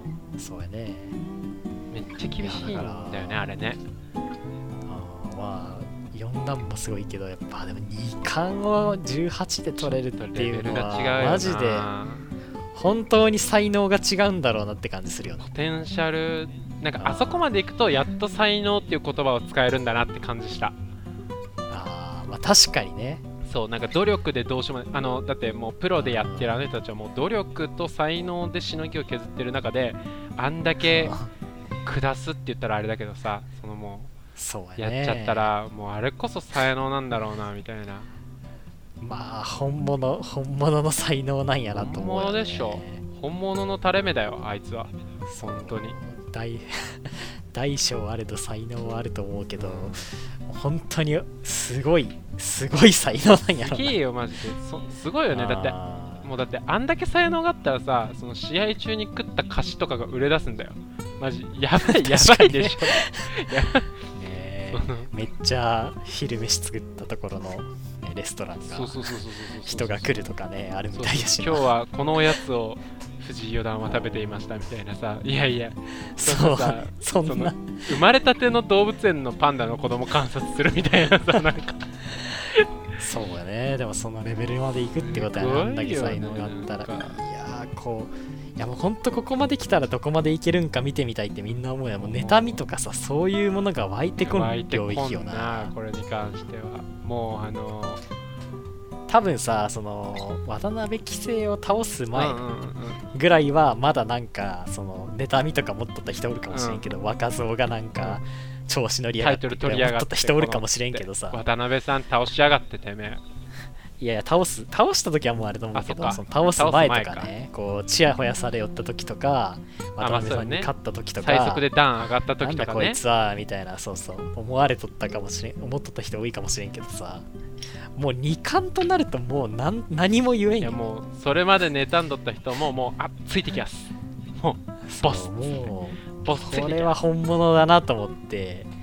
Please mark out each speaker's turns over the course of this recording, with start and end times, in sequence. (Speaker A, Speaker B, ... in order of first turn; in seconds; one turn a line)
Speaker A: 0.4-1.2
Speaker B: 1.9-3.8
Speaker A: 2.4-3.5
Speaker A: 4.9-11.9
Speaker B: 9.8-12.3
Speaker A: 12.7-15.5
Speaker B: 15.4-20.8
Speaker A: 17.0-17.5
Speaker A: 21.7-23.2
Speaker B: 23.4-31.1
Speaker A: 26.0-26.6
Speaker A: 30.8-31.3
Speaker B: 31.9-34.1
Speaker A: 34.4-35.5
Speaker B: 34.8-38.1
Speaker A: 39.0-43.0
Speaker B: 41.7-46.0
Speaker A: 45.3-54.0
Speaker B: 49.6-50.0
Speaker B: 53.5-63.9
Speaker A: 55.3-56.3
Speaker A: 61.8-63.4
Speaker A: 64.1-71.7
Speaker B: 64.7-65.1
Speaker B: 68.7-70.1
Speaker B: 70.9-81.9
Speaker A: 73.9-74.3
Speaker A: 76.0-77.9
Speaker A: 83.0-95.7
Speaker B: 85.0-87.2
Speaker B: 92.0-92.6
Speaker B: 94.2-98.0
Speaker A: 99.1-102.5
Speaker B: 102.1-103.0
Speaker A: 103.1-111.4
Speaker B: 106.5-106.9
Speaker B: 109.2-113.2
Speaker A: 114.0-121.7
Speaker B: 115.7-117.3
Speaker B: 120.0-123.0
Speaker A: 122.4-127.3
Speaker A: 128.0-130.8
Speaker B: 130.6-137.0
Speaker A: 134.9-138.7